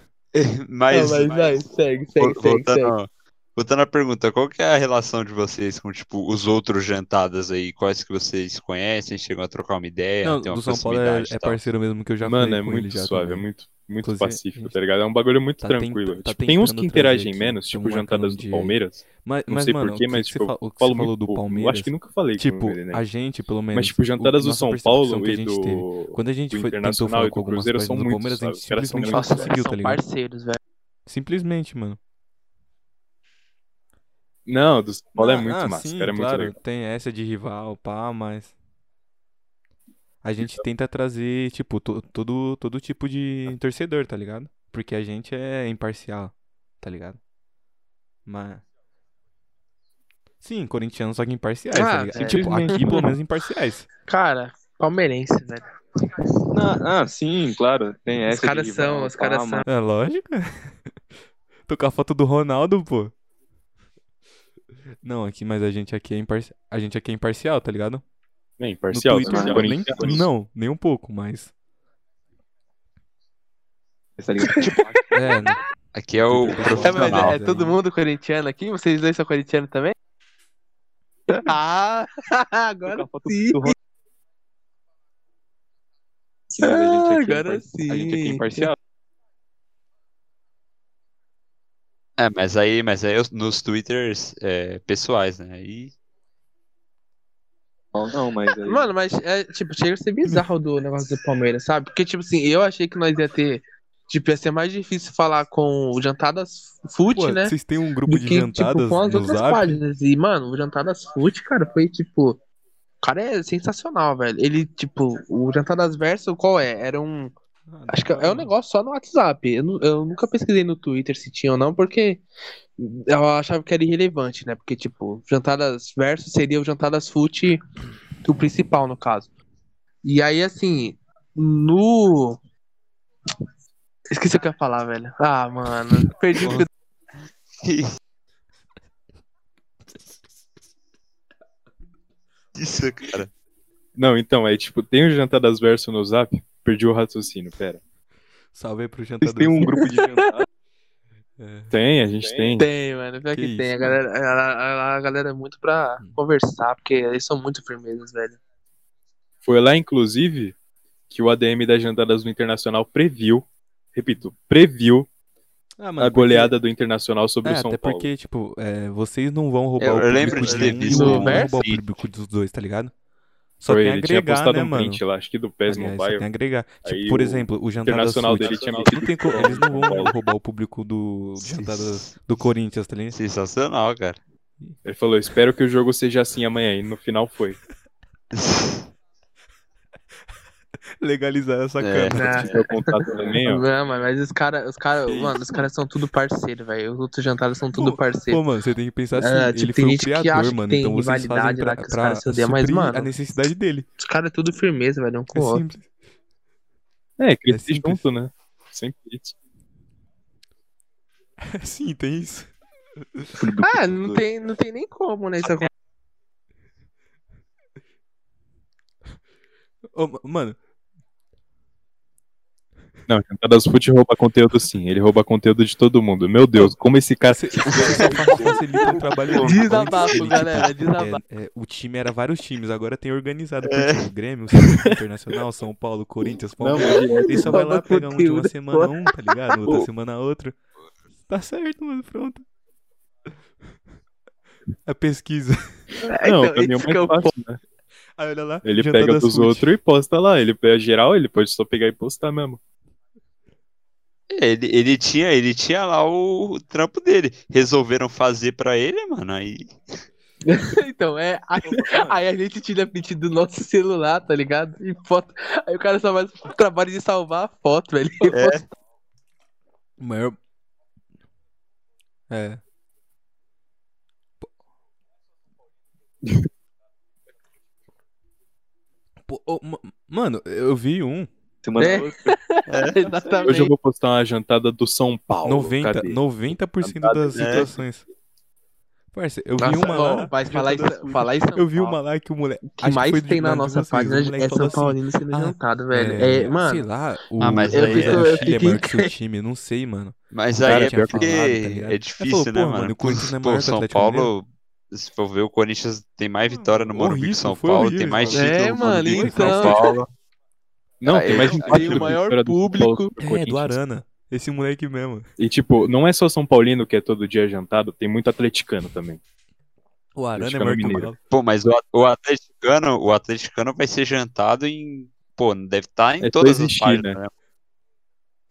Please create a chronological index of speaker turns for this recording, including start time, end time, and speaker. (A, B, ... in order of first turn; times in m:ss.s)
0:00.3-0:01.6 A
0:00.9-0:02.9 B
0:02.2-0:11.6 A
0:10.2-0:13.4 C
0:12.2-0:23.0 D
0:14.0-0:14.7 C
0:15.6-0:30.0 C
0:23.7-0:29.5 D
0:29.0-0:30.6 B
0:31.0-0:32.0 C
0:34.5-0:36.6 D
0:35.2-0:38.5 C
0:40.2-0:47.2 C
0:48.2-0:48.6 C
0:50.4-0:53.8 C
0:51.7-0:53.1 B
0:52.2-0:53.1 E
0:54.1-0:55.6 B
0:56.5-0:59.6 E
0:58.3-0:59.6 B
0:59.6-1:00.9 C
1:01.7-1:03.1 C
1:05.0-1:08.0 C
1:08.6-1:10.3 D
1:08.9-1:11.5 C
1:09.2-1:10.2 E
1:14.2-1:15.4 E
1:14.4-1:15.5 B
1:15.1-1:17.8 C
1:15.9-1:17.4 A
1:16.8-1:19.9 B
1:21.3-1:23.7 B
1:22.9-1:23.7 E
1:26.6-1:28.7 B
1:26.6-1:28.8 E
1:32.2-1:35.9 A
1:37.9-1:38.9 E
1:38.6-1:47.5 B
1:47.1-1:49.8 C
1:48.0-1:52.4 B
1:53.0-1:57.3 B
1:57.7-1:58.5 C
1:57.9-2:02.2 B
2:02.8-2:07.6 B
2:08.2-2:09.3 B
2:10.0-2:12.4 B
2:14.1-2:16.7 B
2:17.6-2:17.9 A
2:22.5-2:23.3 A
2:24.0-2:27.8 D
2:28.5-2:29.8 C
2:29.2-2:30.4 E
2:29.6-2:30.2 B
2:31.4-2:31.8 C
2:31.7-2:32.7 D
2:32.2-2:32.6 E
2:32.6-2:38.4 B
2:33.3-2:34.0 C
2:39.4-2:40.5 D
2:41.1-2:45.1 D
2:45.8-2:46.5 C
2:46.0-2:48.1 D
2:47.4-2:52.9 C
2:49.8-2:51.9 A
2:50.5-2:51.5 B
2:53.6-2:55.0 C
2:53.7-2:56.3 D
2:55.7-3:03.2 C
2:56.8-3:00.1 D
2:58.4-2:59.6 E
3:01.4-3:02.2 A
3:03.1-3:04.2 A
3:04.8-3:07.6 D
3:08.3-3:08.9 A
3:11.0-3:12.6 C
3:11.8-3:12.6 A
3:12.1-3:12.8 B
3:12.4-3:13.6 D
3:13.1-3:13.4 E
3:13.4-3:18.4 B
3:17.7-3:23.8 C
3:19.2-3:23.1 B
3:24.0-3:25.6 B
3:25.3-3:25.9 C
3:27.2-3:29.3 D
3:27.5-3:28.0 C
3:31.5-3:32.5 C
3:33.4-3:34.2 E
3:33.6-3:35.7 B
3:39.9-3:40.6 C
3:43.1-3:48.1 D
3:47.3-4:00.6 C
3:47.7-3:49.5 E
3:49.4-3:51.2 B
3:50.2-3:50.6 A
3:53.6-3:54.1 A
3:56.6-3:57.0 D
3:56.7-3:57.5 E
3:57.0-3:59.0 B
4:01.3-4:02.4 C
4:04.8-4:05.8 C
4:06.0-4:07.3 B
4:06.2-4:07.6 D
4:08.2-4:09.7 C
4:08.6-4:12.6 D
4:14.3-4:19.7 A
4:20.4-4:28.7 B
4:28.3-4:28.6 A
4:30.0-4:30.4 C
4:32.3-4:32.6 C
4:39.3-4:41.3 C
4:41.6-4:42.3 E
4:41.8-4:43.7 B
4:42.7-4:43.0 A
4:43.4-4:46.2 D
4:45.4-4:48.0 C
4:46.8-4:47.8 D
4:47.3-4:47.7 A
4:49.1-5:04.3 C
4:49.6-4:52.0 B
4:52.7-4:56.8 B
4:57.4-4:58.4 A
4:57.6-4:59.1 B
5:00.3-5:10.1 A
5:00.6-5:01.4 D
5:06.5-5:09.8 C
5:08.3-5:09.8 B
5:11.0-5:13.8 D
5:11.0-5:12.1 A
5:11.3-5:11.7 C
5:11.6-5:13.1 B
5:13.2-5:15.2 C
5:15.4-5:19.2 D
5:20.2-5:21.2 C
5:20.4-5:21.1 D
5:21.3-5:27.3 A
5:26.2-5:27.2 D